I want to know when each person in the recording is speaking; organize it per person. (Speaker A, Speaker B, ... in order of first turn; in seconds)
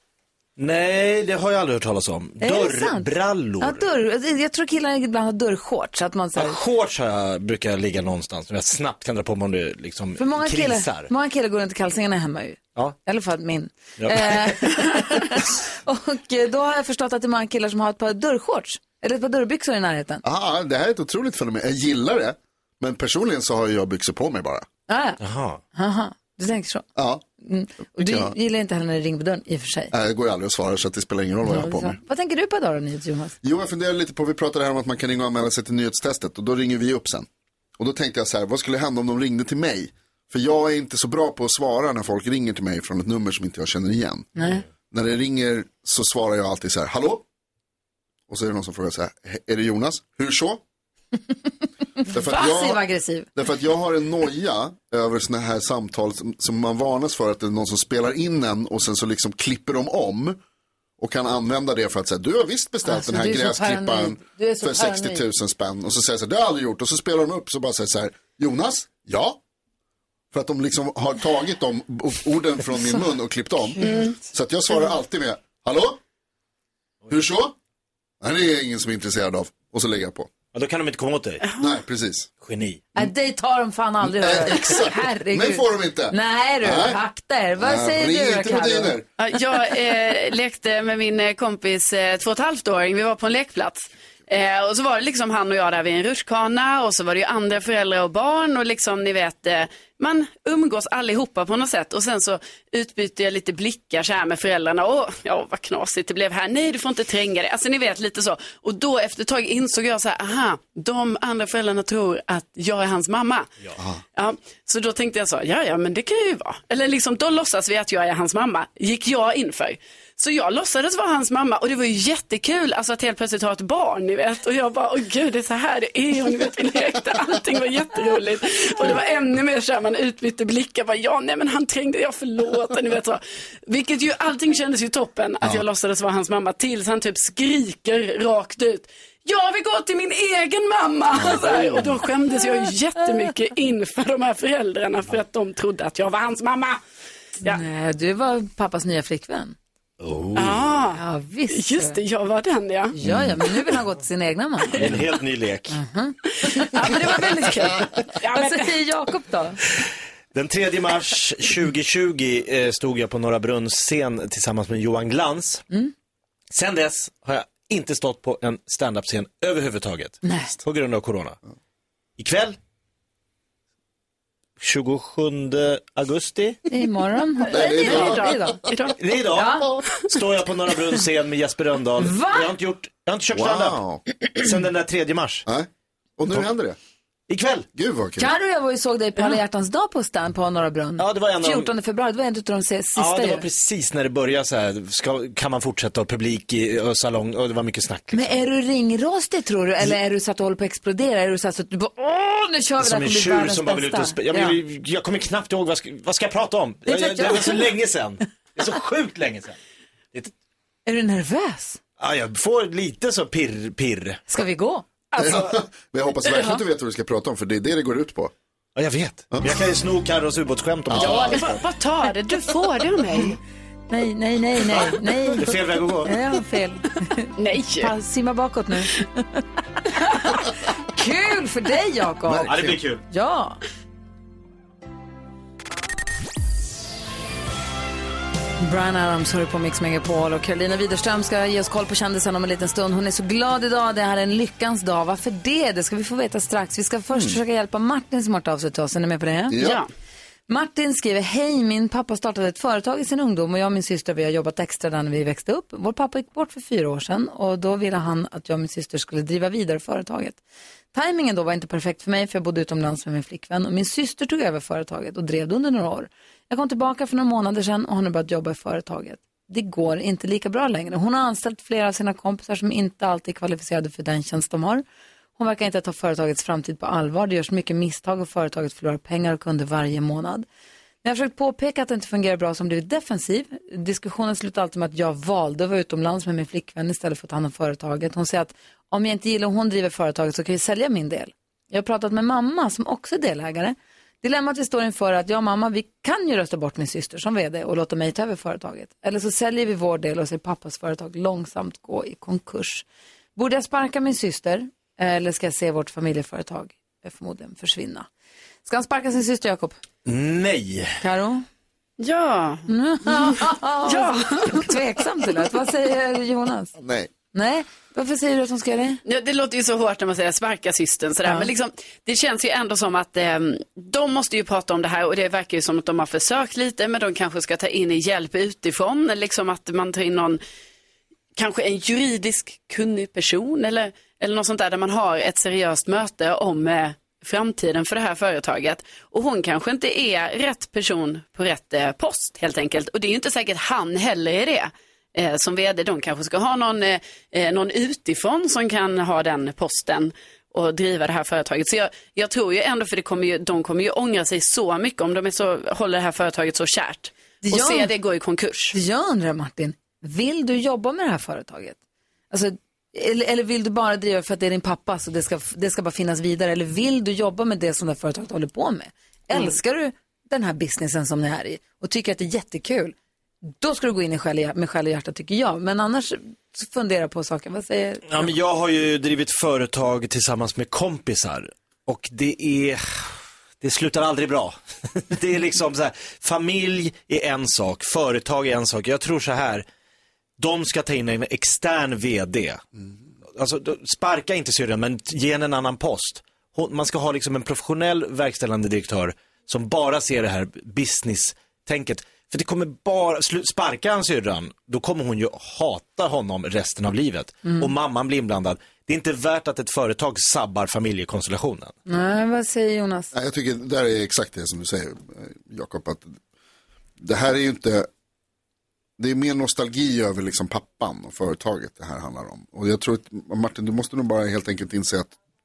Speaker A: 0.6-3.9, 6.4-11.1, 14.0-14.7, 25.2-25.6, 80.5-81.4, 82.4-82.8, 150.0-150.8, 154.8-155.8, 159.8-165.7, 166.5-171.4, 172.2-172.6, 174.6-176.6, 179.0-183.8, 184.3-185.4, 187.3-187.7, 191.0-191.7, 193.0-198.4, 202.8-209.6, 212.0-214.2, 218.8-221.6, 224.7-226.1, 232.5-233.0, 310.1-311.0, 378.1-383.1, 383.6-389.6, 390.4-392.6, 393.4-411.7
Speaker B: 2.4-6.6, 10.2-20.2, 24.9-25.2, 25.7-26.9, 27.4-29.9, 31.5-33.4, 44.4-44.6, 52.2-53.3, 62.8-65.2, 73.6-74.1, 83.0-89.0, 147.4-149.6, 150.9-152.0, 152.9-154.9, 155.7-159.6, 170.2-170.5, 176.7-178.6, 179.3-179.7, 182.0-182.5, 188.2-193.4, 198.1-204.6, 206.9-207.7, 210.9-211.8, 214.3-214.9, 223.9-233.6, 238.6-249.7, 250.5-260.4, 260.9-274.8, 275.4-280.5, 281.0-302.9, 303.4-308.1, 308.6-309.8, 311.0-311.4, 312.7-316.7, 317.3-319.0, 357.4-357.9, 358.7-361.8, 362.3-372.9, 373.6-378.3, 411.9-413.1
Speaker C: 20.2-24.7, 27.0-27.2, 28.0-28.3, 29.9-32.0, 33.4-44.3, 44.9-47.2, 48.3-50.6, 52.1-52.8, 53.4-60.4, 61.0-69.4, 70.3-76.0, 77.1-77.5, 78.2-80.3, 81.6-82.3, 84.0-87.0, 87.6-89.1, 141.2-141.8, 177.5-178.5, 183.3-184.0, 185.5-186.8, 187.8-188.3, 215.2-218.3, 220.9-221.6, 232.3-232.8, 249.5-249.8, 316.8-317.1, 413.1-416.2, 417.0-417.9, 419.0-425.1
Speaker D: 73.8-74.2, 81.4-81.7, 89.2-113.5, 114.2-146.8, 150.3-152.9, 156.6-158.8, 177.5-178.9, 215.2-215.5, 221.0-223.4, 227.4-227.9, 249.6-249.9, 312.0-313.3, 313.8-314.7, 319.1-330.4, 331.4-358.8